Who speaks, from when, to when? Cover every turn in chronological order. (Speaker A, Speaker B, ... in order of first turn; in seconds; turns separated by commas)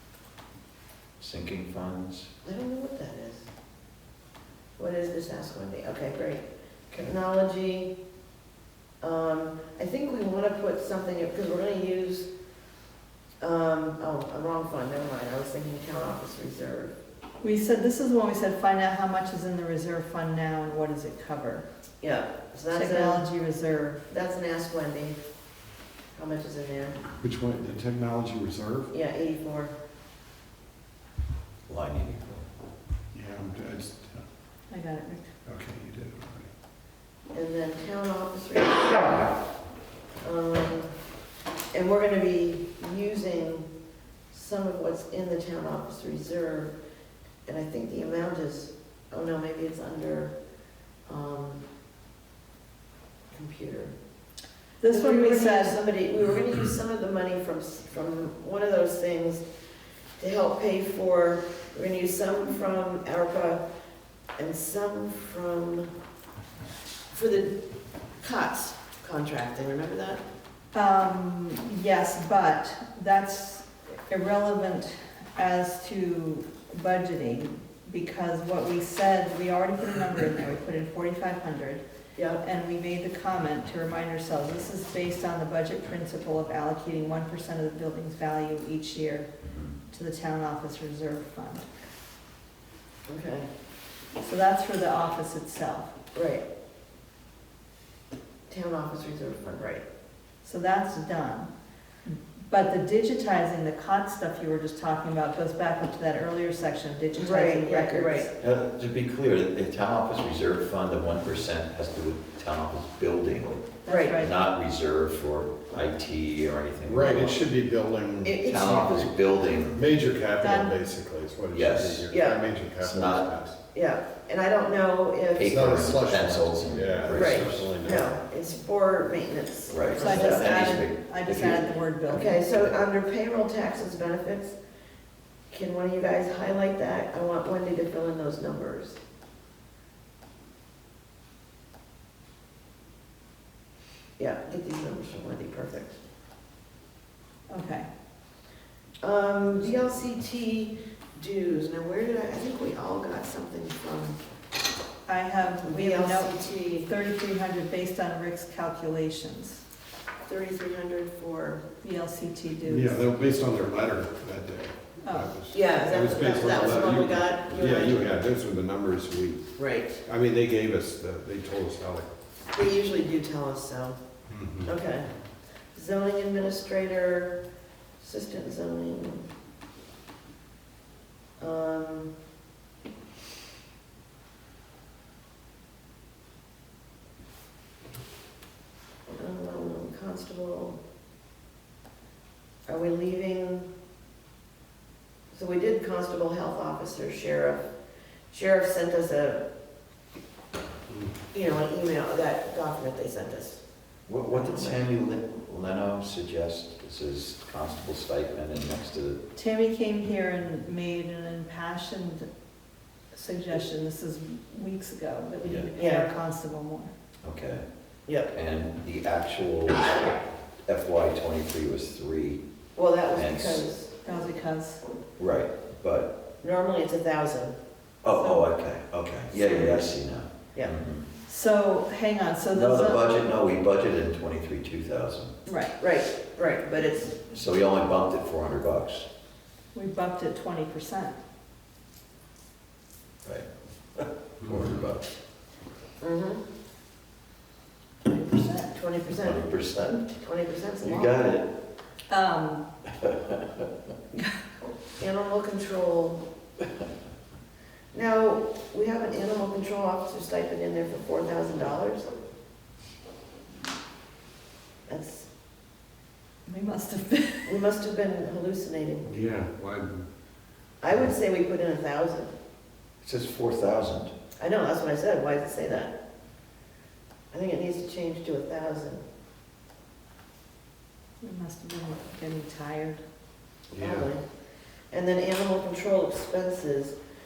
Speaker A: 1.2-2.3, Speaker B: 2.4-3.5, Speaker B: 4.8-7.9, Speaker B: 9.0-12.3, Speaker B: 13.4-16.9, Speaker C: 17.4-21.6, Speaker B: 22.0-23.3, Speaker C: 22.7-24.0, Speaker B: 24.1-25.2, Speaker B: 26.1-27.0, Speaker D: 27.2-28.9, Speaker B: 28.9-29.8, Speaker A: 31.7-32.5, Speaker D: 33.1-34.2, Speaker C: 34.7-35.3, Speaker D: 35.5-36.5, Speaker B: 37.3-39.3, Speaker B: 40.2-40.9, Speaker B: 41.7-43.7, Speaker B: 44.3-46.8, Speaker B: 47.5-50.3, Speaker B: 51.1-51.6, Speaker B: 53.3-53.9, Speaker C: 54.8-55.8, Speaker B: 54.9-59.5, Speaker B: 60.2-63.6, Speaker B: 64.4-65.9, Speaker B: 67.1-67.6, Speaker B: 68.2-70.2, Speaker C: 70.7-81.8, Speaker B: 82.2-82.4, Speaker C: 82.4-89.3, Speaker A: 89.5-89.7, Speaker C: 89.9-91.7, Speaker B: 93.1-93.5, Speaker C: 94.2-95.9, Speaker B: 96.1-96.4, Speaker B: 98.5-99.8, Speaker C: 100.4-101.5, Speaker C: 102.0-108.3, Speaker B: 107.2-108.3, Speaker A: 108.4-117.4, Speaker C: 113.8-114.3, Speaker B: 113.9-114.2, Speaker D: 116.8-119.0, Speaker B: 118.2-119.1, Speaker A: 118.5-119.8, Speaker D: 119.7-123.6, Speaker C: 120.4-120.7, Speaker A: 121.5-122.1, Speaker B: 122.1-122.4, Speaker A: 122.8-123.3, Speaker B: 123.7-125.6, Speaker A: 125.3-127.7, Speaker D: 125.4-128.2, Speaker B: 127.1-130.4, Speaker A: 129.7-131.7, Speaker C: 130.0-132.4, Speaker B: 132.1-134.6, Speaker B: 135.5-139.0, Speaker B: 144.2-146.0, Speaker C: 147.5-147.9, Speaker B: 149.0-154.2, Speaker C: 155.1-159.6, Speaker B: 155.6-156.9, Speaker B: 160.2-161.6, Speaker C: 161.8-163.0, Speaker D: 162.6-172.1, Speaker C: 165.0-165.3, Speaker B: 165.5-168.1, Speaker B: 169.6-170.0, Speaker B: 172.5-174.0, Speaker D: 174.3-174.7, Speaker B: 174.7-175.1, Speaker B: 175.7-177.4, Speaker B: 178.0-179.3, Speaker B: 181.4-182.1, Speaker B: 189.1-190.8, Speaker B: 192.7-193.7, Speaker B: 195.3-197.7, Speaker B: 198.3-199.4, Speaker B: 201.3-203.6, Speaker A: 204.1-209.2, Speaker B: 204.3-204.8, Speaker C: 209.4-212.3, Speaker C: 213.1-216.9, Speaker A: 215.4-215.7, Speaker B: 215.8-216.1, Speaker A: 217.2-217.6, Speaker A: 218.3-222.4, Speaker B: 222.8-223.9, Speaker A: 223.1-223.7, Speaker C: 224.0-224.8, Speaker A: 225.2-226.1, Speaker B: 226.4-227.6, Speaker A: 228.0-231.1, Speaker B: 229.3-229.9, Speaker C: 231.2-233.2, Speaker A: 232.5-235.3, Speaker C: 235.5-235.7, Speaker B: 235.8-237.2, Speaker A: 237.2-239.1, Speaker C: 239.7-241.2, Speaker A: 243.2-245.1, Speaker D: 244.5-244.7, Speaker B: 246.0-246.4, Speaker C: 248.1-248.7, Speaker B: 248.7-249.4, Speaker A: 249.1-250.1, Speaker B: 250.1-251.1, Speaker A: 250.8-251.5, Speaker C: 252.1-252.7, Speaker A: 253.0-253.6, Speaker B: 255.0-256.2, Speaker B: 257.9-262.1, Speaker B: 264.9-265.3, Speaker C: 266.4-267.6, Speaker B: 267.5-269.1, Speaker D: 269.1-270.0, Speaker B: 270.8-272.3, Speaker A: 273.0-274.1, Speaker B: 274.4-275.9, Speaker B: 277.3-279.0, Speaker C: 281.2-283.0, Speaker D: 283.7-284.1, Speaker B: 283.8-284.2, Speaker B: 284.9-286.9